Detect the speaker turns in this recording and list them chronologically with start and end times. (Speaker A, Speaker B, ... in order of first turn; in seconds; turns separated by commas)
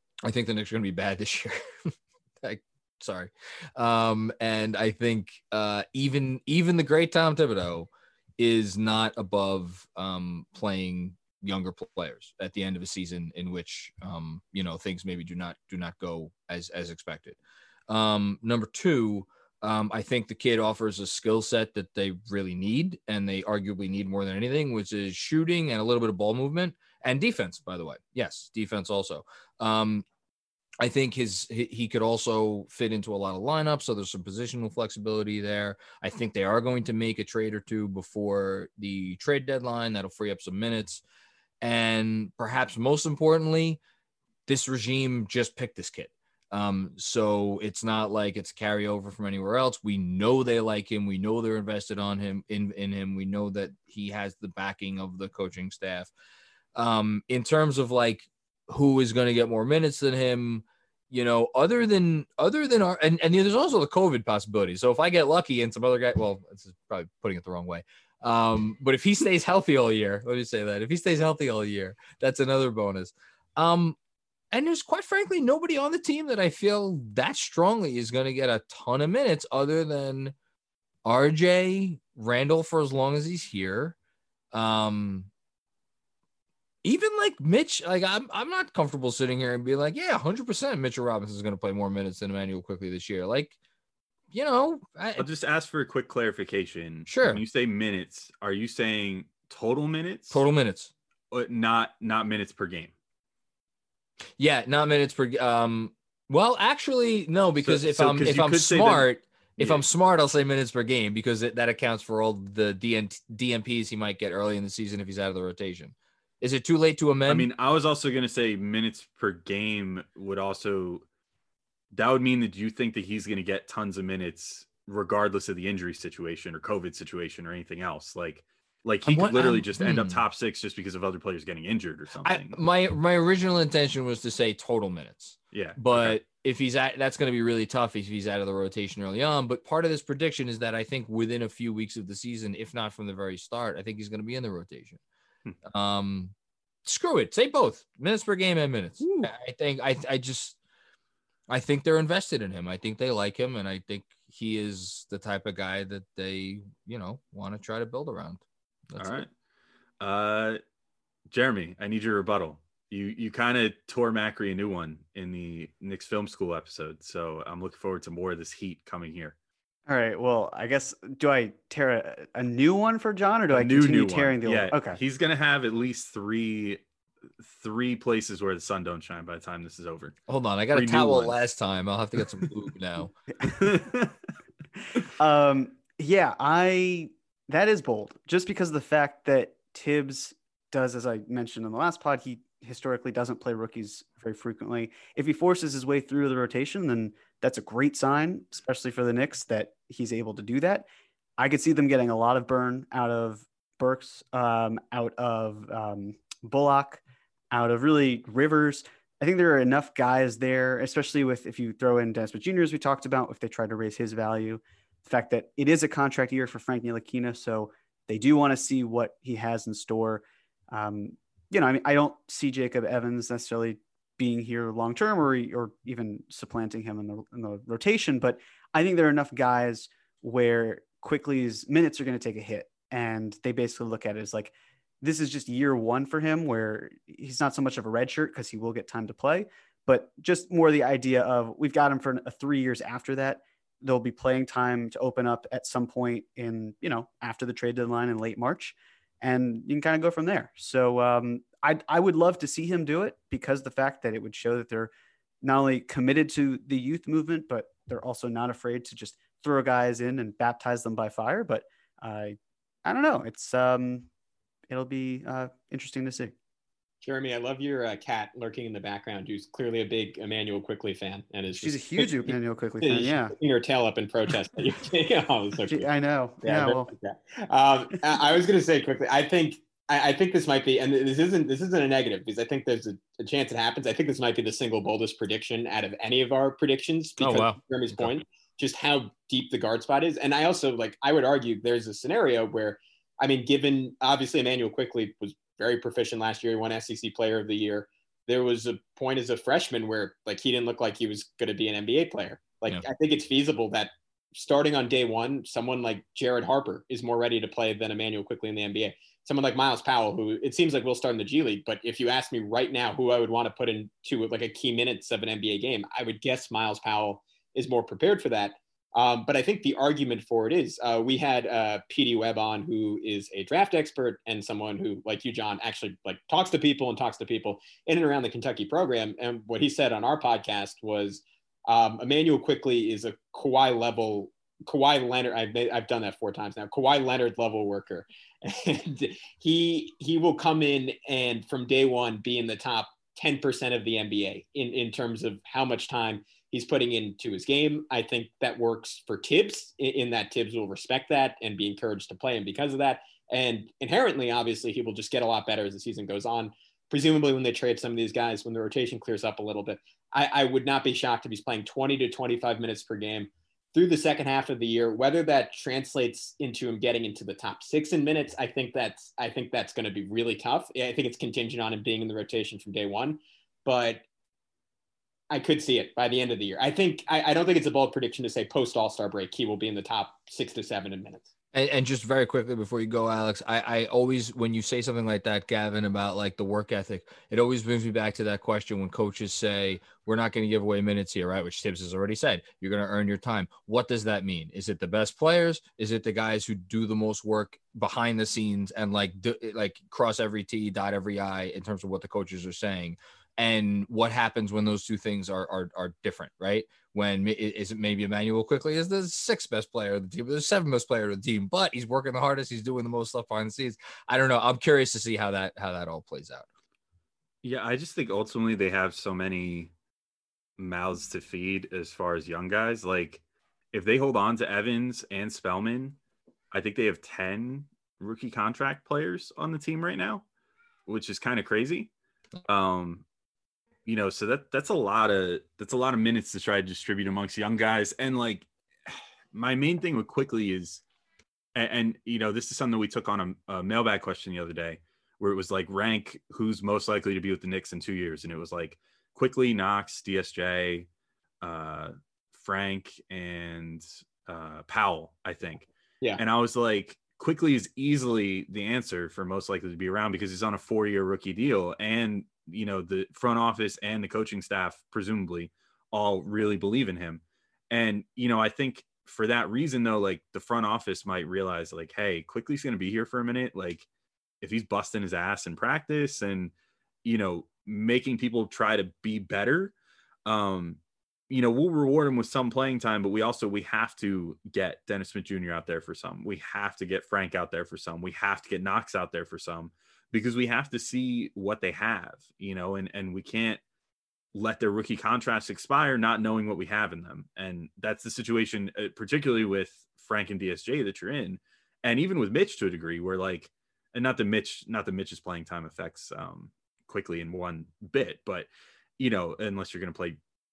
Speaker A: 0.2-30.1, Speaker A: 30.8-41.0, Speaker A: 41.6-43.8, Speaker A: 44.5-56.1, Speaker A: 56.7-74.0, Speaker A: 74.5-80.3, Speaker A: 81.0-84.0, Speaker A: 84.5-85.3, Speaker A: 86.8-93.5, Speaker A: 94.3-95.3, Speaker B: 95.2-100.4, Speaker A: 97.1-97.4, Speaker A: 100.3-100.9, Speaker B: 101.3-102.9, Speaker A: 104.4-117.5, Speaker B: 107.6-109.8, Speaker B: 117.3-121.0, Speaker B: 121.9-132.6, Speaker A: 129.0-130.2, Speaker A: 132.2-145.0, Speaker B: 135.5-136.2, Speaker A: 145.6-146.3, Speaker A: 146.8-150.6, Speaker A: 151.5-159.2, Speaker B: 159.0-159.3, Speaker B: 160.0-160.6, Speaker B: 161.3-169.3, Speaker C: 169.9-175.0, Speaker B: 173.5-176.8, Speaker B: 177.4-180.2, Speaker A: 180.3-183.1, Speaker B: 180.7-181.4, Speaker C: 183.4-183.8, Speaker B: 183.6-184.1, Speaker C: 185.2-200.9, Speaker C: 201.4-254.9, Speaker C: 255.4-264.1, Speaker C: 264.7-266.3, Speaker D: 267.0-275.9, Speaker C: 271.5-273.3, Speaker C: 275.6-276.9, Speaker D: 276.4-374.0, Speaker A: 287.2-288.1, Speaker D: 375.3-381.3, Speaker A: 381.5-416.5, Speaker B: 417.4-419.7, Speaker B: 420.6-423.2, Speaker B: 423.7-426.0, Speaker B: 426.5-430.2, Speaker B: 430.9-431.9, Speaker B: 432.4-433.0, Speaker B: 433.9-440.8, Speaker B: 441.5-450.9, Speaker B: 451.4-473.9, Speaker B: 474.4-476.5, Speaker B: 477.0-479.7, Speaker B: 480.2-493.6, Speaker B: 494.3-510.2